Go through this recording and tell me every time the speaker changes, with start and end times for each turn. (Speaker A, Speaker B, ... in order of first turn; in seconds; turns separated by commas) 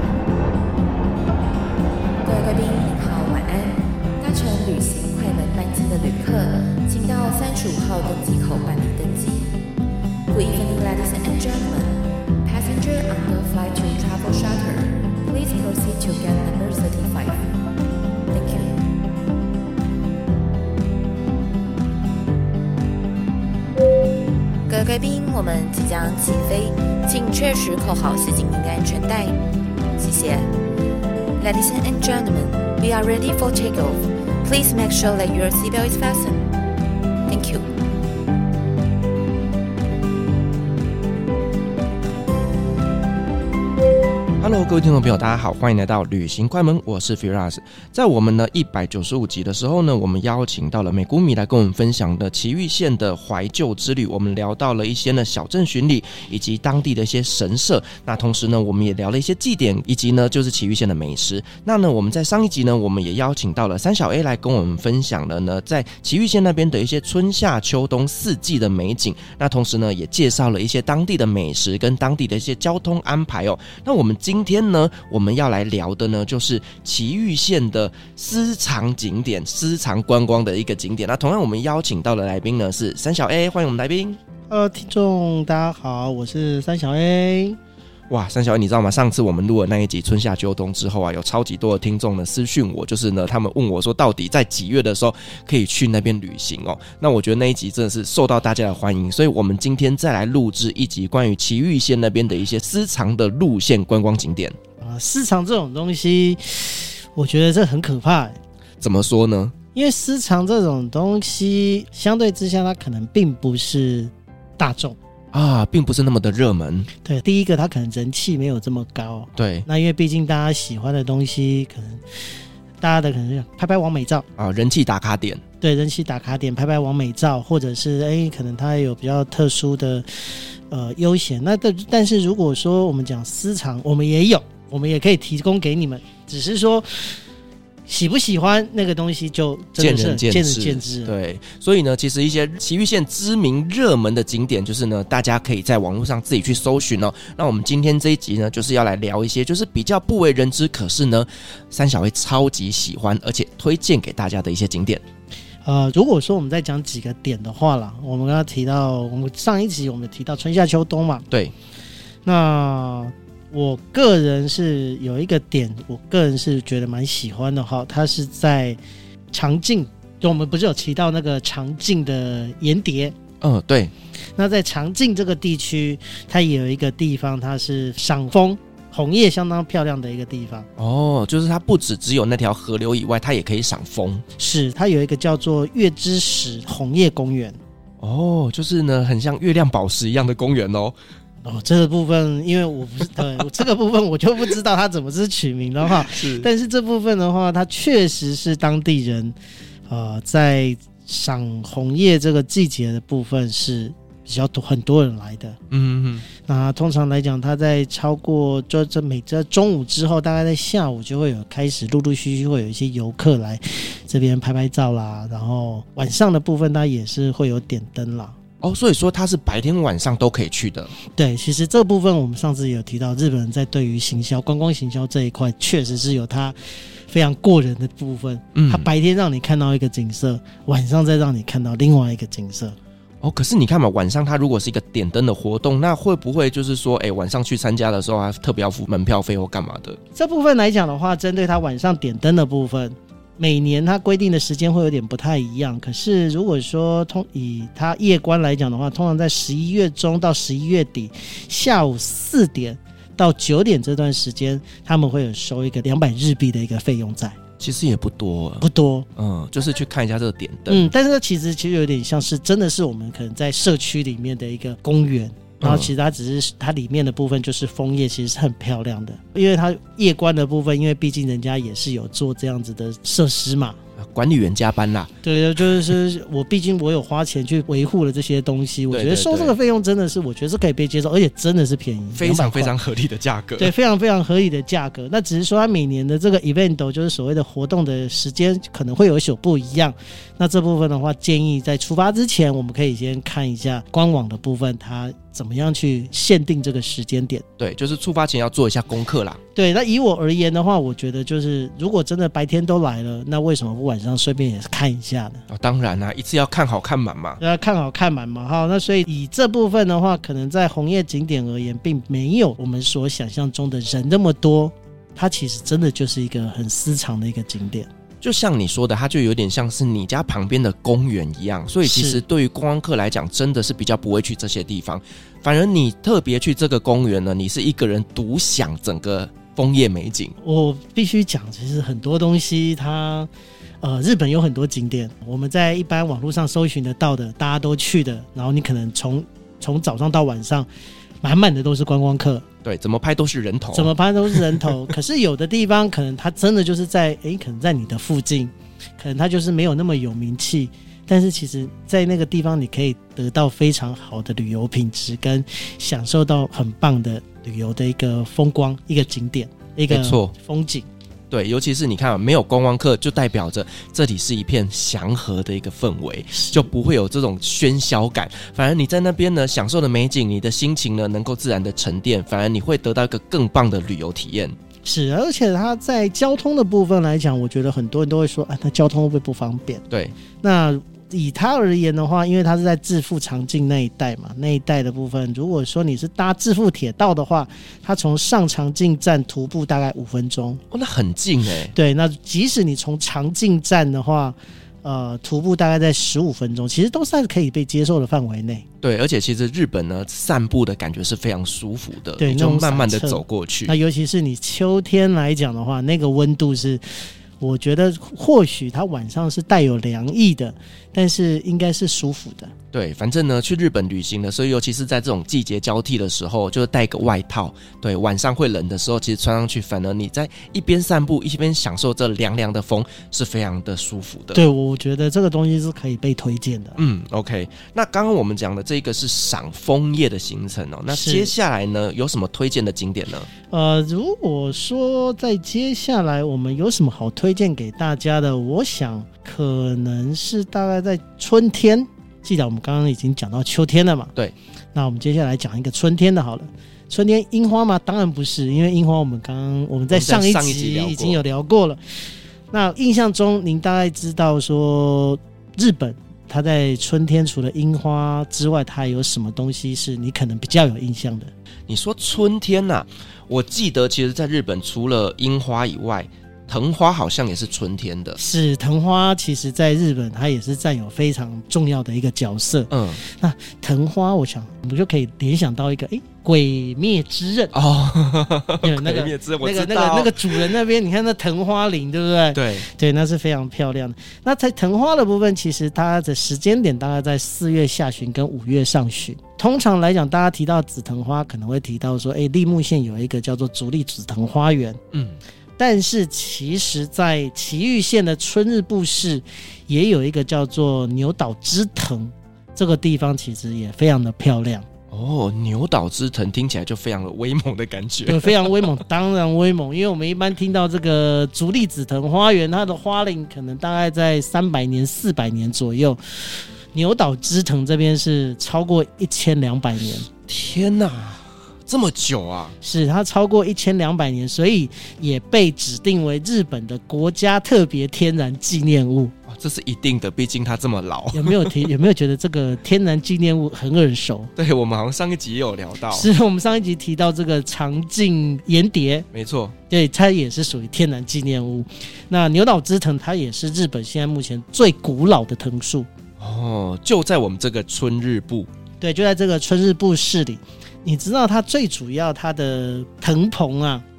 Speaker A: 2.2-9.5, Speaker A: 10.3-17.5, Speaker A: 18.3-18.8, Speaker A: 24.7-29.4, Speaker A: 30.0-30.5, Speaker A: 31.4-36.4, Speaker A: 37.3-37.7, Speaker B: 44.4-84.2, Speaker C: 84.5-87.6, Speaker B: 88.1-104.5, Speaker C: 104.8-108.4, Speaker B: 108.8-109.5, Speaker C: 109.7-115.0, Speaker B: 115.3-116.9, Speaker C: 117.0-122.0, Speaker B: 119.4-119.7, Speaker C: 122.8-124.3, Speaker B: 124.4-125.4, Speaker C: 125.6-137.2, Speaker C: 137.9-141.1, Speaker B: 139.8-155.0, Speaker C: 155.6-161.2, Speaker C: 162.2-168.8, Speaker C: 169.3-173.2, Speaker B: 173.4-173.9, Speaker C: 174.4-180.7, Speaker B: 180.8-184.2, Speaker C: 184.4-187.6, Speaker B: 188.0-190.9, Speaker C: 191.4-199.3, Speaker B: 196.0-196.5, Speaker C: 199.9-205.6, Speaker B: 205.7-206.3, Speaker C: 206.4-218.4, Speaker B: 218.6-220.9, Speaker C: 221.1-226.6, Speaker C: 227.1-232.8, Speaker B: 228.6-228.9, Speaker B: 233.2-240.0, Speaker C: 240.2-257.4, Speaker B: 257.6-260.9, Speaker C: 258.6-259.1, Speaker C: 260.7-273.8, Speaker B: 265.6-265.9, Speaker B: 274.0-275.1, Speaker C: 275.2-282.8, Speaker B: 278.9-279.6, Speaker B: 282.1-283.7, Speaker C: 283.6-297.4, Speaker B: 297.6-299.4, Speaker C: 299.6-305.4, Speaker B: 305.5-307.4, Speaker C: 307.4-317.9, Speaker B: 318.2-330.4, Speaker C: 321.8-322.2, Speaker C: 330.4-333.3, Speaker C: 333.8-340.7, Speaker C: 341.2-342.4, Speaker B: 342.6-344.7, Speaker C: 343.7-360.9, Speaker B: 359.9-360.3, Speaker B: 361.3-374.6, Speaker C: 366.3-366.7, Speaker C: 374.8-379.8, Speaker B: 379.9-380.1, Speaker C: 380.4-390.6, Speaker B: 390.7-391.7, Speaker C: 391.7-398.6, Speaker B: 398.8-403.8, Speaker C: 402.2-412.5, Speaker B: 412.7-424.4, Speaker C: 424.4-426.8, Speaker B: 426.8-433.3, Speaker C: 430.9-431.3, Speaker C: 433.5-444.1, Speaker C: 444.7-451.8, Speaker B: 449.9-451.2, Speaker C: 452.5-461.3, Speaker B: 461.7-468.2, Speaker C: 468.2-477.5, Speaker B: 472.7-473.0, Speaker B: 477.5-480.6, Speaker C: 478.6-494.8, Speaker B: 482.3-482.7, Speaker B: 494.9-495.2, Speaker C: 495.6-504.7, Speaker B: 504.9-508.8, Speaker C: 508.1-520.1, Speaker B: 520.3-522.5, Speaker C: 522.6-529.1, Speaker B: 529.3-531.7, Speaker C: 531.1-534.3, Speaker B: 534.4-536.1, Speaker C: 535.9-539.1, Speaker B: 539.1-539.5, Speaker C: 539.7-545.9, Speaker B: 546.2-548.5, Speaker C: 548.8-553.8